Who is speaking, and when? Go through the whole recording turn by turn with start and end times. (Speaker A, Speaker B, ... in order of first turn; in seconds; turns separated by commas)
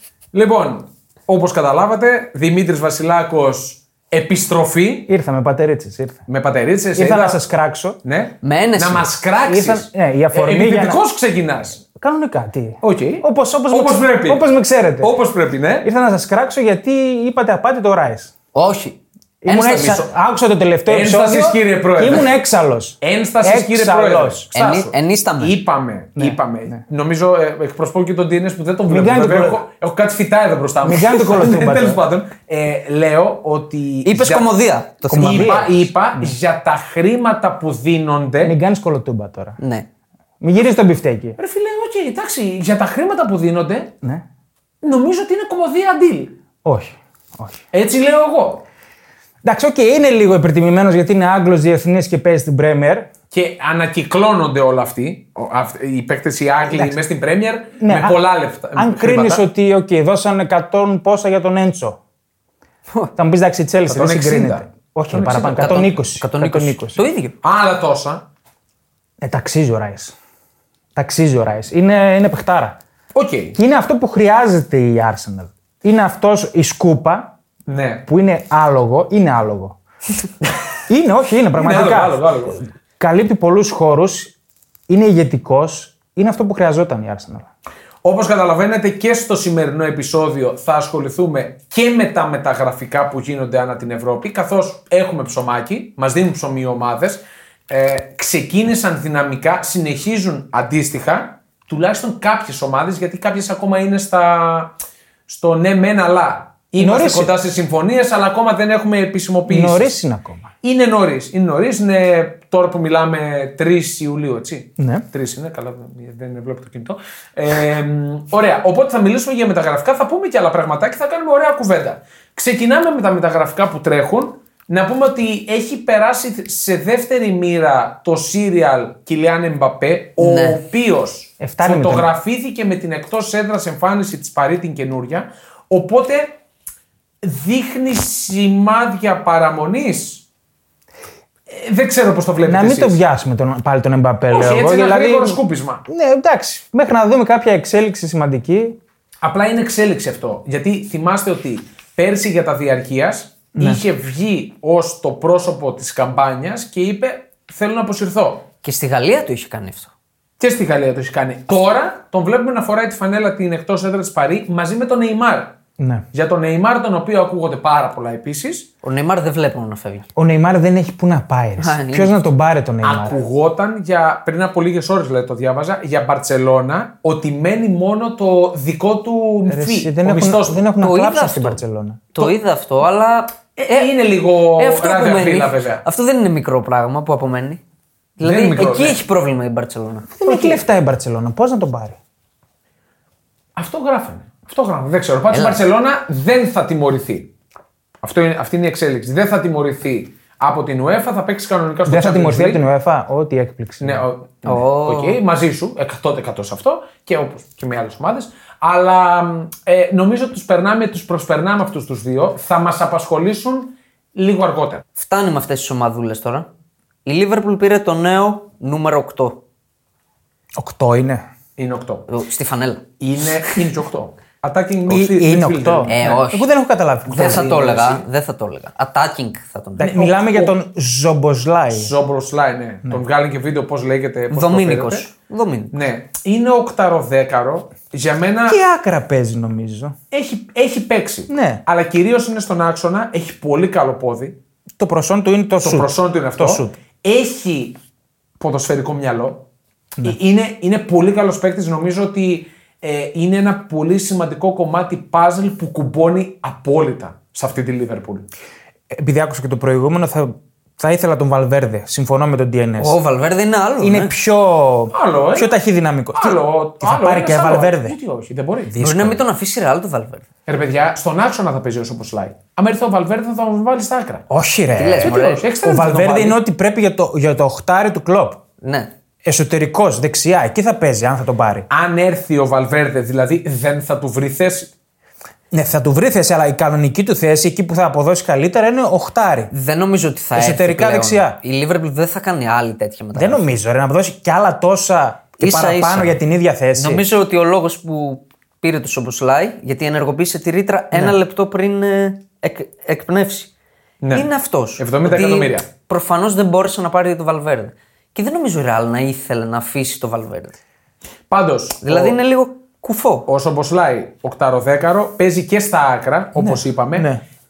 Speaker A: 0.3-5.1, Speaker B: 5.1-6.2, Speaker A: 6.3-7.4, Speaker B: 7.0-8.0, Speaker A: 8.0-11.8, Speaker C: 8.4-9.1, Speaker B: 9.4-11.0, Speaker B: 11.8-15.1, Speaker A: 12.8-14.5, Speaker A: 15.0-15.9, Speaker B: 15.8-18.3, Speaker C: 18.5-20.0, Speaker B: 19.4-24.4, Speaker A: 19.5-20.1, Speaker A: 20.9-22.3, Speaker A: 23.0-34.5, Speaker C: 24.5-25.6, Speaker B: 26.2-26.8, Speaker B: 28.9-29.6, Speaker B: 30.8-32.0, Speaker C: 34.0-35.6, Speaker B: 35.1-36.3, Speaker A: 35.1-38.5, Speaker B: 38.4-39.6, Speaker C: 39.6-39.9, Speaker B: 40.4-41.4, Speaker A: 41.4-43.9, Speaker A: 44.8-46.3, Speaker B: 46.6-47.6, Speaker A: 47.7-48.6, Speaker B: 49.4-53.1, Speaker A: 53.3-59.4, Speaker B: 56.7-57.0, Speaker B: 57.8-58.2, Speaker B: 58.7-62.0, Speaker B: 63.1-67.0, Speaker A: 63.9-65.8, Speaker C: 65.5-67.3, Speaker A: 67.4-68.2, Speaker B: 69.2-70.1, Speaker B: 71.0-72.8, Speaker A: 73.1-73.6, Speaker B: 73.5-77.3, Speaker A: 77.7-78.1, Speaker B: 78.1-79.8, Speaker B: 80.9-82.2, Speaker A: 81.5-82.7, Speaker B: 83.0-84.3, Speaker B: 84.9-87.5, Speaker A: 88.0-104.7, Speaker A: 105.3-109.9, Speaker B: 106.8-107.3, Speaker B: 109.5-110.5, Speaker A: 110.6-136.4, Speaker B: 114.8-115.0, Speaker C: 130.2-130.6, Speaker B: 131.4-132.1, Speaker A: 137.2-140.2, Speaker A: 141.5-143.0, Speaker B: 142.4-148.8, Speaker A: 144.3-145.8, Speaker A: 149.2-158.4, Speaker B: 153.5-153.8, Speaker C: 158.6-159.9, Speaker A: 160.4-165.6, Speaker B: 165.8-166.1, Speaker A: 166.1-168.7, Speaker C: 168.8-170.1, Speaker B: 170.1-173.2, Speaker C: 171.6-172.2, Speaker A: 172.8-180.7, Speaker B: 179.4-182.2, Speaker C: 180.8-181.6, Speaker C: 182.1-183.9, Speaker A: 183.6-185.8, Speaker C: 184.6-187.6, Speaker C: 188.2-190.1, Speaker A: 188.2-189.0, Speaker B: 190.2-192.0, Speaker A: 190.2-190.6, Speaker A: 193.6-197.3, Speaker C: 195.3-195.6, Speaker A: 198.0-202.6, Speaker B: 201.9-204.0, Speaker A: 203.8-214.8, Speaker C: 204.4-205.2, Speaker C: 215.0-216.5, Speaker C: 217.0-219.4, Speaker B: 220.6-221.2, Speaker A: 221.6-222.1, Speaker C: 222.1-222.8, Speaker A: 223.0-226.2, Speaker B: 224.9-227.5, Speaker C: 225.9-226.5, Speaker C: 227.1-230.0, Speaker A: 227.1-228.1, Speaker B: 229.8-231.9, Speaker A: 229.8-230.5, Speaker A: 231.7-235.1, Speaker C: 234.3-235.8, Speaker A: 235.7-238.6, Speaker B: 238.5-239.9, Speaker A: 240.1-244.4, Speaker B: 241.3-241.6, Speaker B: 244.8-246.7, Speaker A: 245.6-247.8, Speaker A: 248.4-249.4, Speaker A: 250.0-258.2, Speaker B: 258.9-263.0, Speaker C: 262.8-264.1, Speaker B: 263.8-268.0, Speaker A: 264.9-265.5, Speaker A: 266.1-268.7, Speaker B: 268.7-269.2, Speaker C: 268.8-270.2, Speaker A: 270.4-274.2, Speaker B: 274.3-278.4, Speaker C: 274.8-275.4, Speaker A: 275.0-276.4, Speaker C: 278.6-278.9, Speaker B: 279.2-281.7, Speaker A: 281.7-284.7, Speaker B: 285.5-289.5, Speaker C: 289.5-293.5, Speaker B: 290.3-291.4, Speaker B: 293.1-297.0, Speaker C: 295.4-296.1, Speaker C: 296.8-303.5, Speaker A: 304.0-305.7, Speaker C: 304.1-310.5, Speaker A: 311.3-312.2, Speaker C: 311.8-313.3, Speaker A: 313.3-317.1, Speaker B: 316.4-317.2